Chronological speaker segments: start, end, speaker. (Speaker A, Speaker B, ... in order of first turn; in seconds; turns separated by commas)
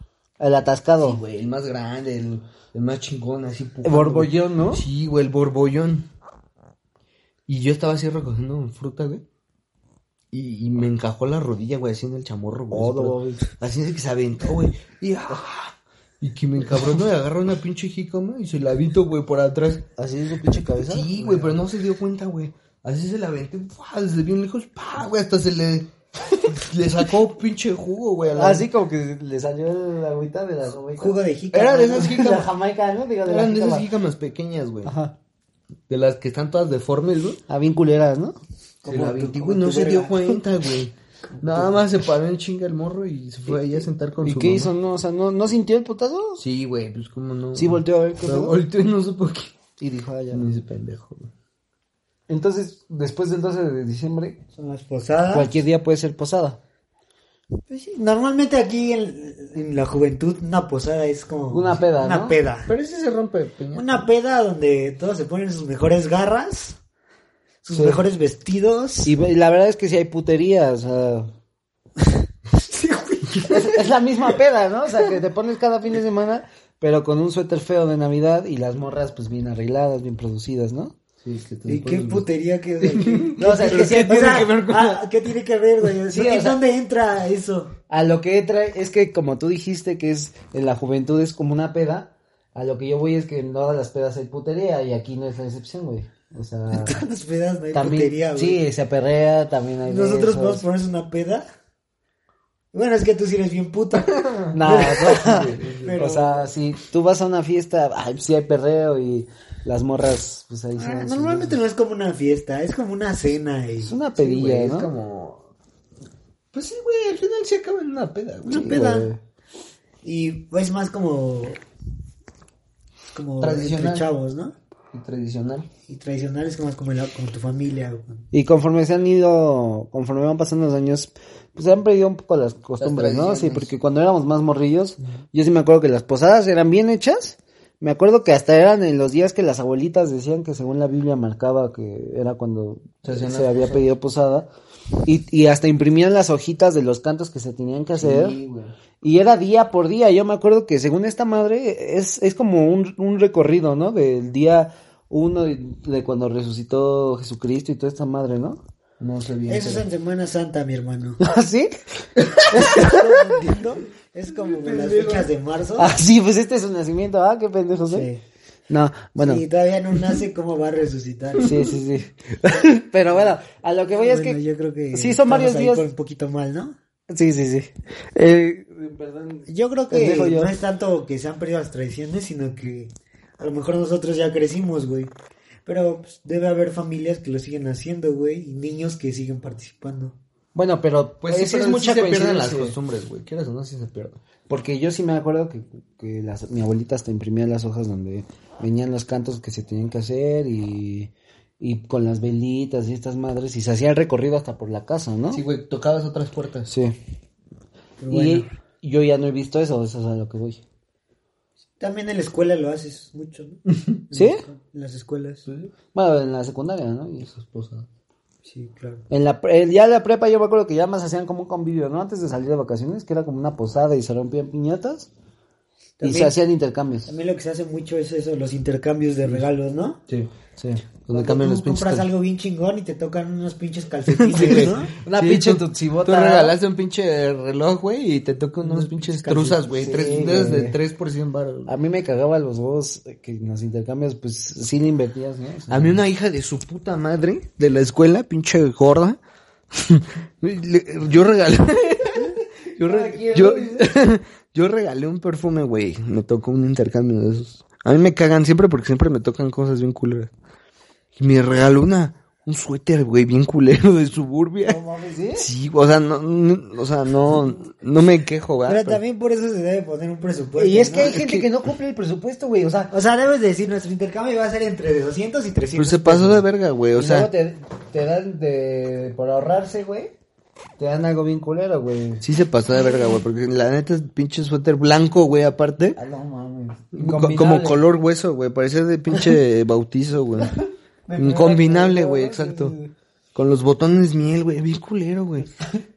Speaker A: 0.4-1.2, Speaker B: 1.0-6.1, Speaker A: 3.8-4.8, Speaker B: 7.5-9.2, Speaker B: 10.3-19.9, Speaker A: 12.7-13.5, Speaker A: 20.0-21.6, Speaker B: 20.8-28.7, Speaker A: 28.3-31.1, Speaker C: 31.0-32.5, Speaker B: 31.5-32.4, Speaker A: 32.0-33.9, Speaker B: 33.2-34.9, Speaker A: 34.8-35.1, Speaker B: 35.9-37.4, Speaker A: 37.5-38.4, Speaker C: 38.8-40.4, Speaker B: 38.8-44.7, Speaker C: 41.4-41.7, Speaker A: 44.2-46.4, Speaker B: 46.4-49.5, Speaker A: 47.5-48.6, Speaker A: 49.8-50.5, Speaker B: 50.3-51.3, Speaker A: 52.3-54.4, Speaker C: 54.5-55.5, Speaker A: 55.3-56.6, Speaker C: 57.7-62.7, Speaker A: 61.5-62.3, Speaker B: 62.6-64.1, Speaker C: 63.7-66.8, Speaker C: 67.6-69.1, Speaker A: 67.7-68.0, Speaker A: 69.0-71.3, Speaker C: 72.5-73.5, Speaker A: 73.4-80.9, Speaker B: 81.2-82.3, Speaker C: 81.7-87.7, Speaker B: 82.8-85.0, Speaker A: 83.4-84.7, Speaker A: 86.1-86.6, Speaker A: 87.9-97.0, Speaker C: 96.7-98.6, Speaker A: 97.7-100.6, Speaker C: 99.8-101.5, Speaker C: 102.7-106.5, Speaker B: 103.9-106.0, Speaker A: 104.5-111.6, Speaker C: 110.8-114.0, Speaker A: 113.8-114.9, Speaker B: 114.2-115.4, Speaker B: 116.5-118.8, Speaker C: 118.4-119.1, Speaker A: 118.5-119.2, Speaker C: 120.0-121.6, Speaker C: 123.1-124.5, Speaker B: 123.4-124.1, Speaker B: 124.9-125.7, Speaker C: 125.9-128.3, Speaker A: 128.3-144.5, Speaker B: 132.8-133.7, Speaker B: 143.0-143.9, Speaker A: 145.0-148.4, Speaker B: 147.9-148.7, Speaker A: 149.0-158.6, Speaker B: 159.0-159.8, Speaker C: 159.5-161.2, Speaker A: 161.2-163.3, Speaker B: 162.2-162.5, Speaker C: 162.5-166.0, Speaker B: 164.3-165.3, Speaker A: 165.8-168.1, Speaker C: 167.9-168.2, Speaker A: 168.7-169.4, Speaker C: 169.2-171.7, Speaker B: 171.4-171.7, Speaker A: 171.4-174.4, Speaker C: 174.0-176.8, Speaker A: 174.9-175.9, Speaker A: 177.1-180.5, Speaker C: 179.5-185.1, Speaker C: 185.7-190.2, Speaker A: 190.5-192.7, Speaker B: 191.2-194.2, Speaker A: 194.5-205.4, Speaker B: 205.3-206.7, Speaker A: 206.7-206.9, Speaker C: 208.0-208.5, Speaker A: 208.1-210.6, Speaker C: 211.8-215.4, Speaker A: 214.1-214.4, Speaker B: 215.4-215.7, Speaker A: 215.9-217.3, Speaker B: 217.2-217.9, Speaker C: 218.4-219.0, Speaker A: 219.1-225.1, Speaker C: 226.0-226.3, Speaker A: 226.0-227.1, Speaker C: 227.1-230.0, Speaker A: 230.6-230.8, Speaker B: 231.1-232.1, Speaker C: 231.1-234.9, Speaker B: 234.1-241.7, Speaker A: 234.5-236.5, Speaker A: 238.9-240.8, Speaker A: 241.7-246.0, Speaker B: 245.7-249.2, Speaker B: 249.7-260.3, Speaker A: 252.2-253.9, Speaker B: 261.1-264.8, Speaker A: 264.7-265.5, Speaker B: 265.3-269.0, Speaker C: 268.6-271.4, Speaker A: 270.6-272.9, Speaker B: 271.1-271.4, Speaker C: 272.9-276.4, Speaker B: 275.7-277.3, Speaker A: 276.9-280.1, Speaker A: 280.8-282.2, Speaker B: 282.2-286.0, Speaker A: 285.9-287.8, Speaker B: 286.9-290.5, Speaker A: 291.1-292.9, Speaker B: 291.2-292.7, Speaker B: 293.3-295.5